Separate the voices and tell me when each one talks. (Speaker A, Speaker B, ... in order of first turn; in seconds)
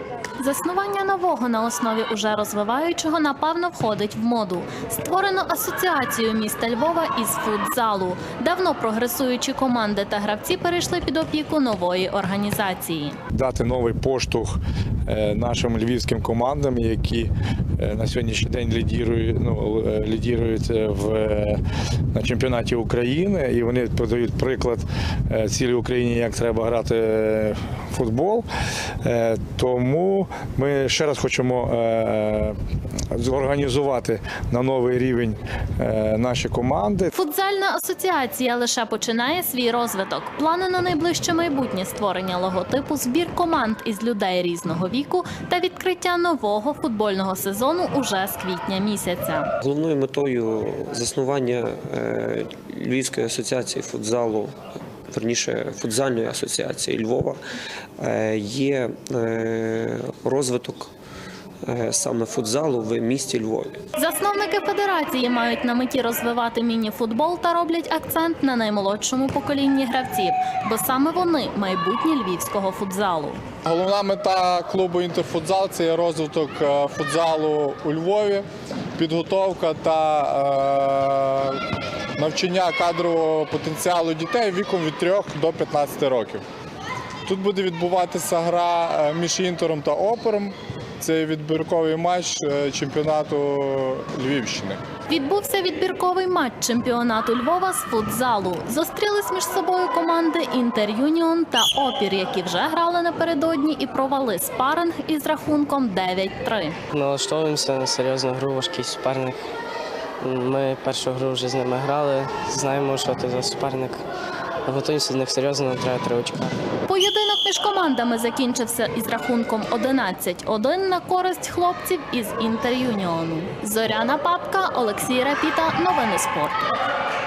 Speaker A: 0.4-13.2, 37.1-49.5, 64.0-73.4, 95.1-106.8, 116.9-126.8
Speaker B: 13.3-21.6, 22.1-28.5, 29.0-32.6, 33.1-37.1
Speaker C: 49.6-54.6, 55.1-57.4, 58.0-60.9, 61.6-63.8
Speaker D: 73.7-78.5, 79.0-81.6, 82.2-86.4, 87.3-94.8
Speaker E: 106.9-109.4, 110.2-114.0, 114.7-116.6